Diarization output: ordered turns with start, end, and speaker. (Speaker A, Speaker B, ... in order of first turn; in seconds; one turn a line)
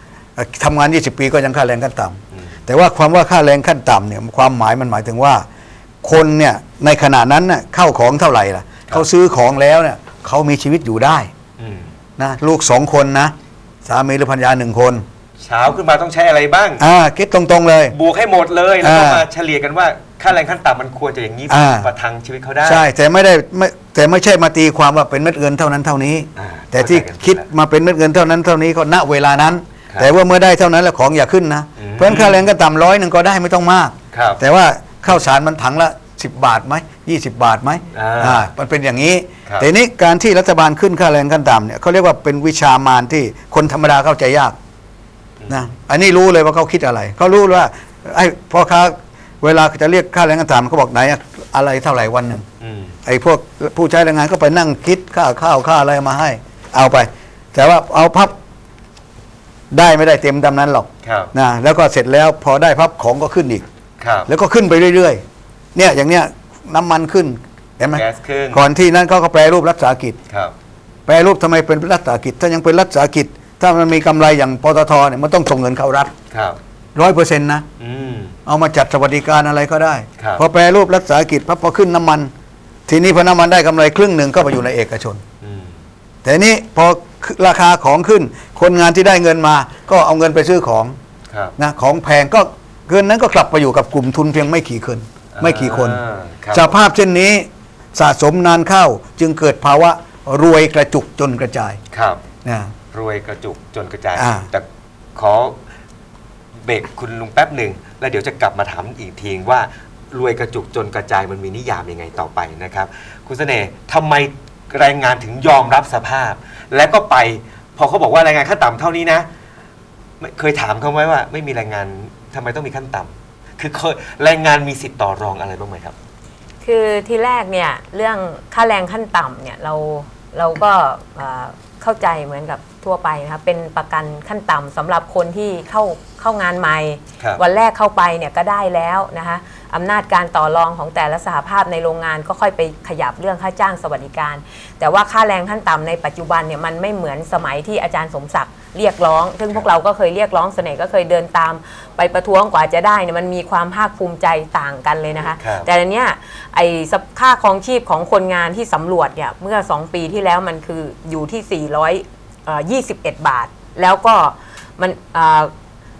Speaker A: 0.4-5.5
Speaker B: 2.3-2.6
Speaker A: 6.0-11.3
Speaker B: 11.6-11.9
Speaker A: 12.2-13.3
Speaker A: 13.8-15.0
Speaker B: 15.4-16.8
Speaker A: 16.8-17.9
Speaker B: 17.9-22.9
Speaker A: 18.8-19.3
Speaker A: 21.5-21.9
Speaker A: 22.6-44.5
Speaker B: 26.4-27.4
Speaker B: 31.8-32.5
Speaker B: 34.1-34.4
Speaker B: 37.9-38.5
Speaker B: 45.4-45.6
Speaker A: 45.5-52.5
Speaker B: 52.6-53.0
Speaker A: 53.0-58.4
Speaker A: 59.7-63.6
Speaker B: 61.0-61.3
Speaker B: 64.0-64.3
Speaker A: 64.3-65.2
Speaker A: 65.7-70.2
Speaker B: 67.9-68.6
Speaker B: 70.3-70.5
Speaker A: 71.1-76.1
Speaker B: 76.3-76.6
Speaker A: 77.0-77.7
Speaker B: 77.8-78.3
Speaker A: 78.5-82.3
Speaker B: 80.2-80.4
Speaker A: 82.9-85.2
Speaker B: 85.4-85.7
Speaker A: 86.2-91.0
Speaker B: 91.3-91.5
Speaker A: 91.6-96.0
Speaker B: 95.3-96.8
Speaker A: 96.5-101.8
Speaker B: 101.9-102.2
Speaker A: 102.4-102.7
Speaker B: 102.9-104.6
Speaker A: 104.2-104.5
Speaker B: 105.2-105.5
Speaker B: 106.6-119.3
Speaker B: 120.2-125.9
Speaker C: 126.6-165.5
Speaker B: 155.4-155.7